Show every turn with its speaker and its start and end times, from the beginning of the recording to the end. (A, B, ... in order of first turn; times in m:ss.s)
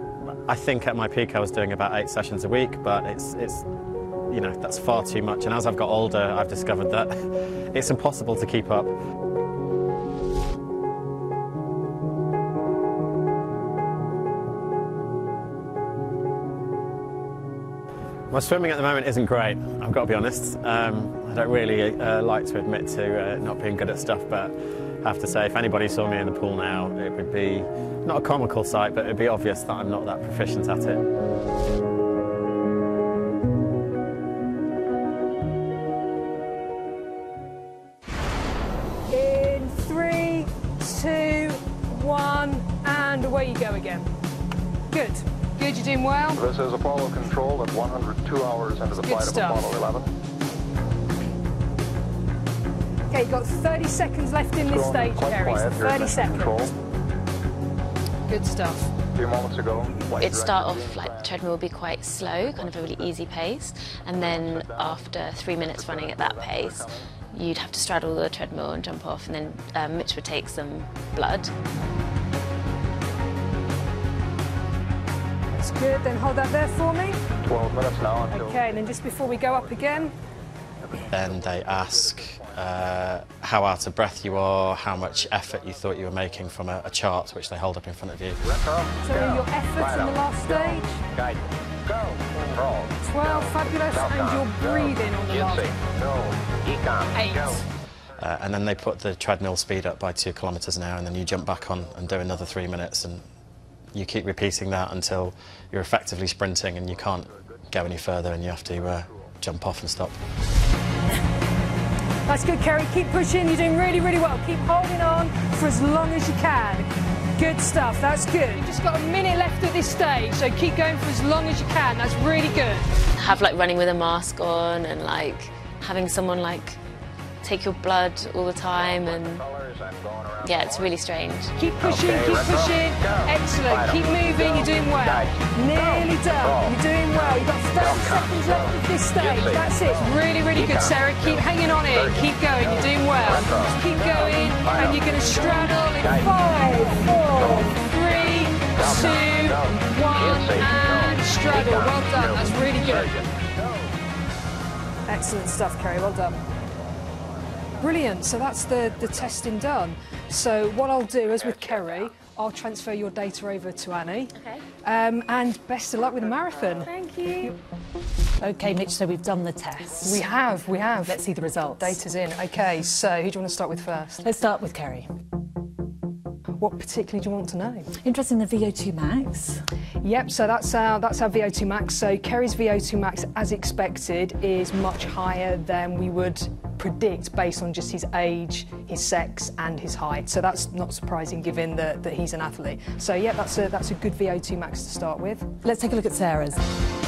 0:00.5-0:03.7 A
0:04.3-0:08.9 A
0:18.3-0:31.0 A
0:39.1-0:44.1 B
0:44.9-0:46.4 B
0:46.4-0:50.2 C
0:49.0-0:49.7 B
0:53.1-0:56.7 B
0:54.6-0:56.7 C
0:58.3-0:59.0 B
0:59.1-1:01.4 C
1:00.2-1:11.5 D
1:02.6-1:03.1 C
1:04.1-1:05.0 C
1:05.6-1:07.0 C
1:15.5-1:17.2 B
1:17.4-1:19.7 C
1:18.3-1:20.1 B
1:20.9-1:22.6 C
1:21.1-1:28.5 A
1:28.5-1:37.6 C
1:29.0-1:31.0 B
1:33.0-1:35.8 B
1:37.2-1:37.6 E
1:38.2-1:43.2 A
1:44.0-1:50.2 A
1:52.3-2:03.0 B
2:03.2-2:06.8 D
2:07.4-2:09.4 D
2:08.7-2:10.9 C
2:10.4-2:11.6 D
2:11.6-2:33.2 B
2:11.8-2:16.7 C
2:17.8-2:26.3 C
2:27.4-2:27.7 C
2:28.7-2:33.9 C
2:35.1-2:36.4 B
2:37.8-2:46.9 B
2:41.6-2:42.1 C
2:44.4-2:44.6 D
2:46.8-2:47.6 D
2:48.4-2:50.2 E
2:50.0-2:54.3 B
2:51.1-2:51.9 E
2:54.2-2:55.1 E
2:56.6-2:57.9 B
2:58.0-2:59.6 E
3:00.0-3:15.5 B
3:15.6-3:16.6 E